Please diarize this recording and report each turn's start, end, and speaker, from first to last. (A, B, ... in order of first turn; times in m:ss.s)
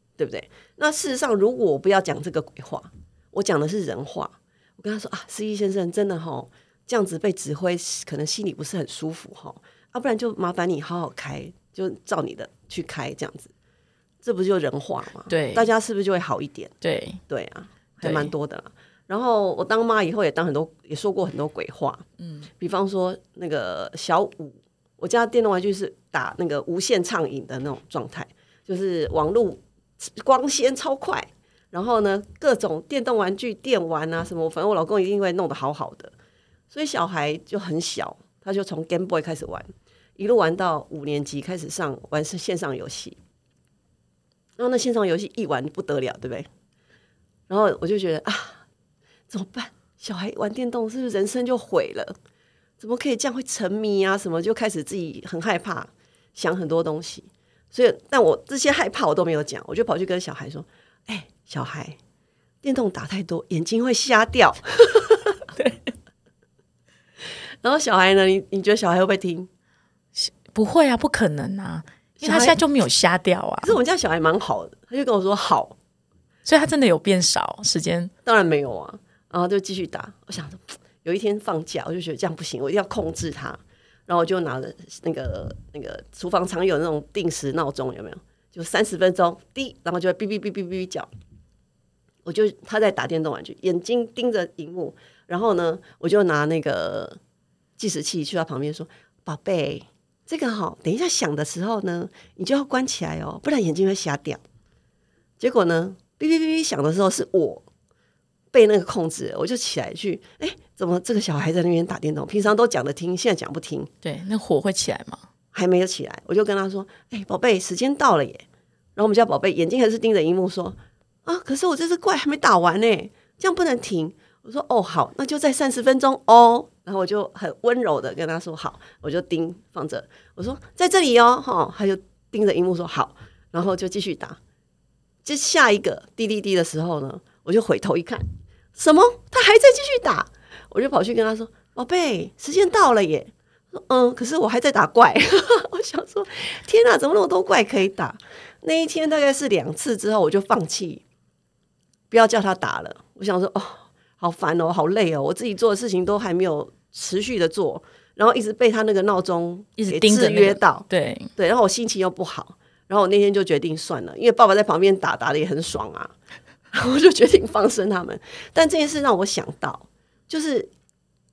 0:00.2-0:13.5 A
0:14.2-0:16.7 A
0:15.3-0:15.7 B
0:16.8-0:17.2 B
0:17.3-0:22.0 A
0:18.0-0:18.3 B
0:22.2-0:22.5 B
0:22.6-0:36.1 A
0:36.7-0:43.2 A
0:44.6-0:46.5 A
0:47.5-0:48.6 A
0:49.3-0:52.1 A
0:52.8-1:02.0 A
1:02.6-1:05.4 A
1:05.6-1:05.9 B
1:07.6-1:09.5 A
1:10.2-1:13.8 B
1:12.2-1:12.6 A
1:13.6-1:15.8 A
1:16.4-1:18.1 B
1:18.2-1:31.1 A
1:32.2-1:37.2 A
1:37.8-1:44.4 A
1:45.4-1:47.6 A
1:48.5-1:53.9 A
1:54.0-1:55.2 B
1:55.5-1:58.4 A
1:59.0-2:14.4 A
2:15.2-2:31.0 A
2:32.1-2:40.8 A
2:39.8-2:41.3 B
2:41.4-2:46.1 A
2:46.7-2:50.7 A